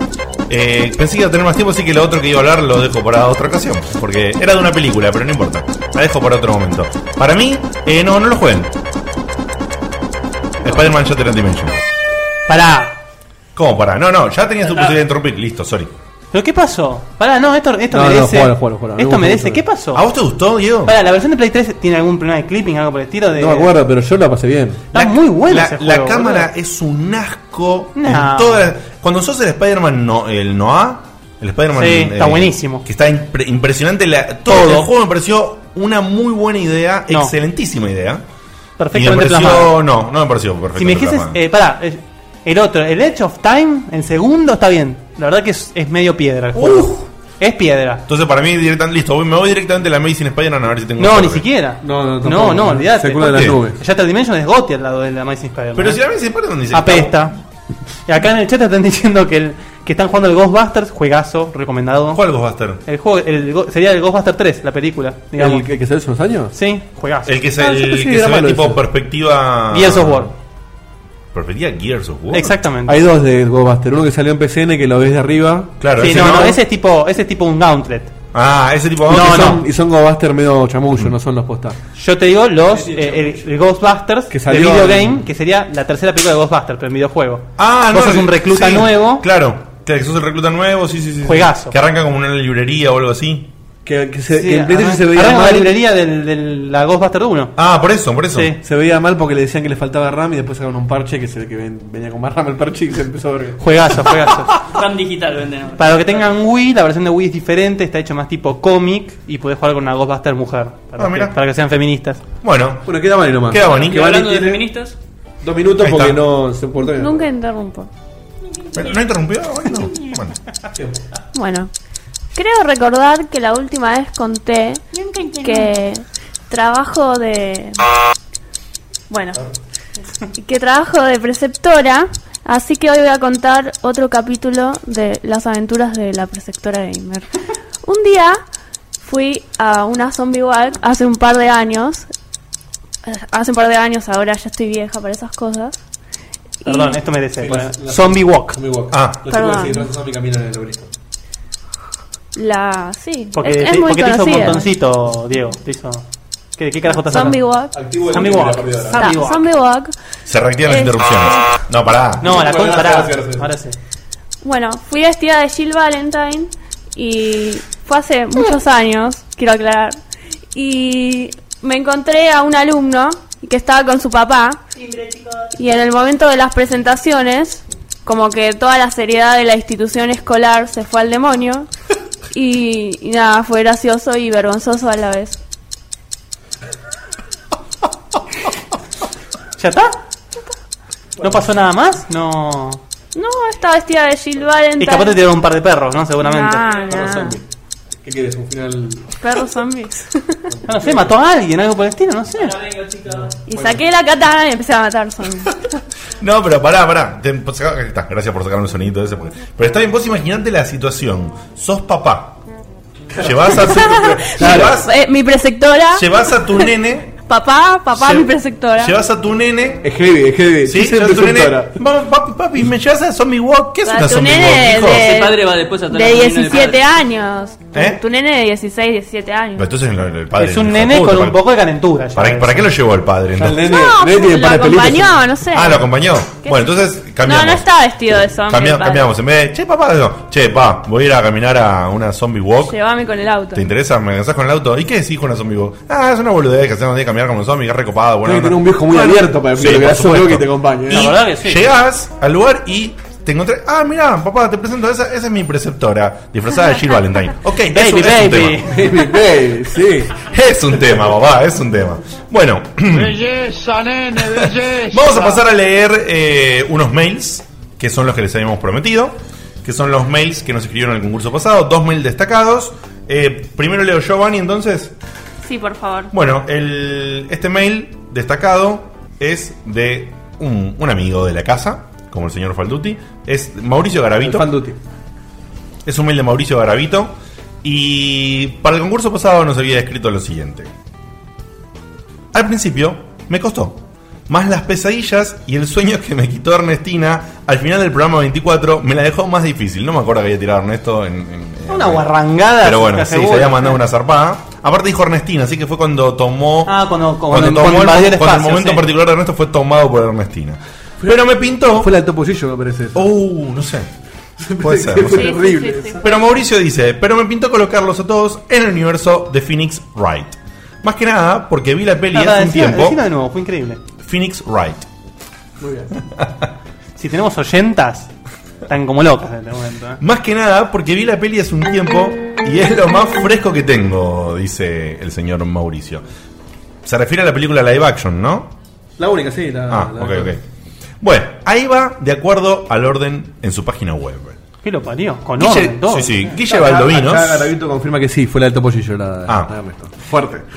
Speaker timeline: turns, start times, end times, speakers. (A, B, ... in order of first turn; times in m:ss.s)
0:00.5-0:08.7 A
0:10.6-0:11.8 A
0:12.5-0:13.0 B
0:13.6-0:15.9 A
0:14.6-0:15.0 C
0:16.3-0:20.0 B
0:17.9-0:19.6 D
0:19.9-0:21.0 A
0:20.8-0:23.7 B
0:23.3-0:24.9 D
0:24.9-0:26.5 B
0:24.9-0:38.2 A
0:28.0-0:28.6 B
0:31.7-0:32.8 B
0:34.5-0:34.9 B
0:38.8-0:39.8 B
0:38.9-0:41.4 A
0:40.8-0:48.0 B
0:46.6-0:47.0 A
0:48.1-0:51.4 A
0:51.0-0:56.0 B
0:51.8-0:53.8 D
0:53.2-0:53.6 A
0:55.8-0:57.1 A
0:56.7-0:57.4 B
0:58.1-1:02.2 B
1:02.1-1:02.8 A
1:02.8-1:05.6 B
1:05.4-1:06.5 D
1:06.5-1:07.3 B
1:07.3-1:10.3 A
1:07.6-1:08.8 D
1:09.7-1:10.3 B
1:11.3-1:12.6 A
1:12.3-1:13.0 B
1:12.9-1:16.5 D
1:15.8-1:16.6 A
1:16.0-1:18.1 B
1:18.3-1:19.6 A
1:19.1-1:19.6 B
1:19.1-1:21.8 D
1:22.0-1:29.2 B
1:22.7-1:23.4 D
1:24.3-1:25.2 D
1:27.6-1:33.5 A
1:31.2-1:31.7 B
1:33.8-1:35.8 D
1:34.3-1:37.6 B
1:37.6-1:38.5 A
1:38.3-1:38.6 B
1:38.6-1:44.3 D
1:43.6-1:44.5 B
1:44.6-1:46.3 C
1:45.8-1:52.2 B
1:51.0-1:51.4 A
1:52.4-1:54.2 A
1:52.8-1:54.7 D
1:53.6-1:55.0 C
1:55.4-1:57.3 D
1:55.8-1:56.2 A
1:57.0-1:57.9 E
1:58.7-2:00.4 A
2:00.8-2:01.0 D
2:01.3-2:01.7 E
2:02.4-2:07.8 E
2:05.0-2:05.4 C
2:09.1-2:09.4 E
2:10.3-2:17.3 E
2:17.8-2:18.4 E
2:19.0-2:22.1 E
2:23.1-2:25.8 E
2:26.6-2:27.0 E
2:26.6-2:28.6 B
2:27.4-2:30.9 D
2:28.9-2:29.3 A
2:29.3-2:29.9 E
2:32.4-2:34.7 E
2:33.3-2:36.0 B
2:36.6-2:37.4 B
2:37.1-2:37.8 E
2:37.7-2:39.1 D
2:38.1-2:39.5 B
2:38.9-2:39.9 E
2:40.3-2:42.2 A
2:40.6-2:41.4 E
2:42.2-2:43.8 B
2:42.2-2:43.5 D
2:44.4-2:50.0 E
2:50.5-2:54.6 E
2:55.5-3:01.7 E
3:02.3-3:05.4 E
3:09.6-3:10.0 B
3:11.2-3:12.8 B
3:13.1-3:15.2 E
3:14.8-3:17.4 B
3:16.2-3:17.4 E
3:18.0-3:19.1 D
3:19.2-3:20.5 E
3:20.6-3:21.1 D
3:20.7-3:22.6 B
3:22.4-3:23.4 C
3:23.5-3:25.6 E
3:23.5-3:23.8 D
3:26.2-3:32.4 A
3:33.1-3:34.9 D
3:33.2-3:34.9 A
3:33.6-3:39.0 E
3:36.0-3:37.2 A
3:38.0-3:39.8 A
3:39.8-3:41.8 D
3:40.6-3:45.0 A
3:43.8-3:49.7 E
3:44.9-3:46.8 C
3:47.7-3:48.0 A
3:49.6-3:51.4 A
3:50.4-3:52.7 B
3:52.2-3:53.7 A
3:53.4-3:55.2 D
3:53.6-3:59.1 E
3:55.5-3:57.7 A
3:58.5-4:02.8 A
4:02.7-4:03.7 E
4:03.5-4:18.7 A
4:08.2-4:11.2 D
4:10.9-4:11.7 B
4:17.7-4:19.0 B
4:18.6-4:20.2 D
4:20.2-4:23.2 A
4:22.9-4:25.4 F
4:24.2-4:34.9 A
4:35.4-4:36.1 E
4:36.1-4:44.5 A
4:44.2-4:44.8 D
4:45.8-4:50.7 A
4:52.3-5:06.8 A
5:01.7-5:03.8 B
5:06.7-5:08.9 B
5:07.3-5:11.9 A
5:11.7-5:13.2 D
5:13.0-5:13.9 A
5:14.4-5:16.1 D
5:14.6-5:15.4 A
5:15.1-5:16.0 E
5:16.0-5:23.0 A
5:22.1-5:23.8 B
5:24.0-5:24.9 A
5:25.6-5:25.9 D
5:27.0-5:28.1 B
5:28.7-5:30.0 B
5:30.0-5:36.0 A
5:36.8-5:38.5 A
5:39.0-5:40.4 D
5:39.7-5:40.4 A
5:41.0-5:44.4 A
5:44.6-5:46.1 B
5:45.4-5:47.5 A
5:46.3-5:50.5 D